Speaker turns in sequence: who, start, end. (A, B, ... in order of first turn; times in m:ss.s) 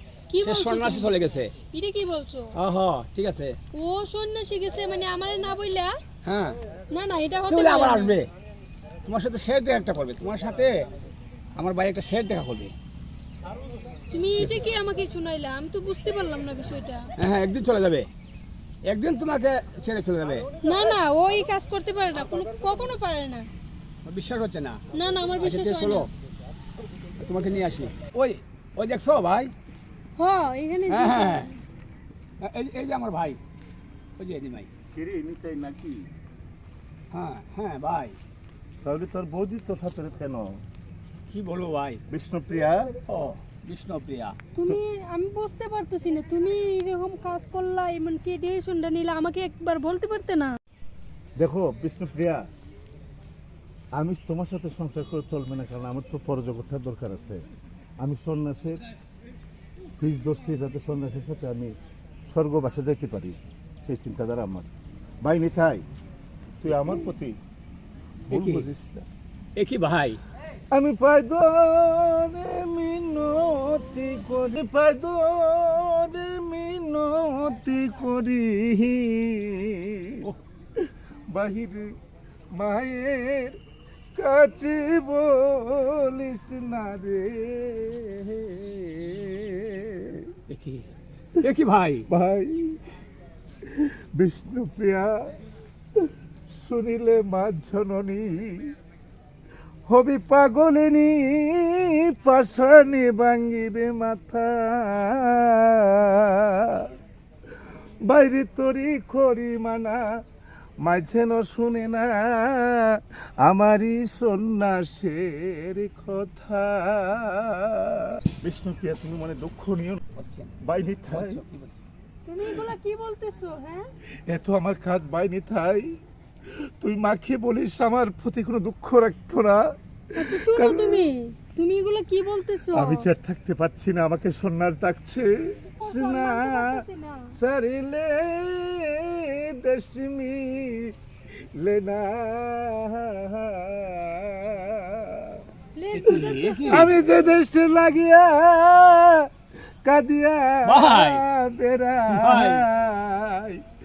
0:00.3-0:01.1 A
0:00.4-0:01.5 B
0:01.7-0:02.5 A
0:02.6-0:03.6 B
0:03.7-0:05.9 A
0:06.2-0:06.6 B
0:06.9-0:08.2 A
0:07.5-0:08.3 B
0:09.0-0:10.9 B
0:11.6-0:12.7 B
0:14.1-0:17.0 A
0:17.2-0:18.1 B
0:18.8-0:20.4 B
0:20.6-0:23.4 A
0:24.0-0:24.8 B
0:24.9-0:26.1 A
0:25.4-0:26.1 B
0:27.2-0:29.5 B
0:30.2-0:31.6 A
0:30.9-0:31.5 B
0:32.4-0:33.4 B
0:34.2-0:34.7 B
0:34.9-0:36.1 C
0:37.1-0:38.2 B
0:38.8-0:40.6 C
0:41.3-0:42.0 B
0:42.1-0:43.0 C
0:43.1-0:44.4 B
0:44.5-0:50.5 A
0:51.4-0:52.4 C
0:54.0-0:57.4 C
0:58.0-0:58.8 C
1:00.0-1:01.8 C
1:02.3-1:04.7 C
1:05.2-1:05.8 C
1:06.6-1:07.3 C
1:06.8-1:07.0 B
1:08.3-1:09.0 C
1:08.3-1:08.7 B
1:09.6-1:10.2 B
1:10.7-1:21.9 C
1:22.5-1:23.6 C
1:24.2-1:30.3 C
1:30.5-1:32.1 B
1:32.1-1:32.8 C
1:33.6-1:35.3 C
1:36.6-1:38.7 C
1:39.9-1:46.9 C
1:48.0-1:50.0 C
1:50.8-2:00.0 C
2:00.2-2:00.6 B
2:00.6-2:01.4 C
2:01.1-2:01.8 B
2:02.2-2:03.8 A
2:04.3-2:05.9 C
2:06.8-2:09.6 C
2:10.2-2:13.1 A
2:10.2-2:11.1 C
2:12.7-2:16.8 C
2:15.8-2:17.3 A
2:17.3-2:20.9 C
2:21.6-2:25.4 C
2:25.7-2:27.0 A
2:25.9-2:27.0 B
2:26.0-2:29.3 C
2:29.8-2:33.6 C
2:30.6-2:31.2 B
2:32.1-2:32.7 B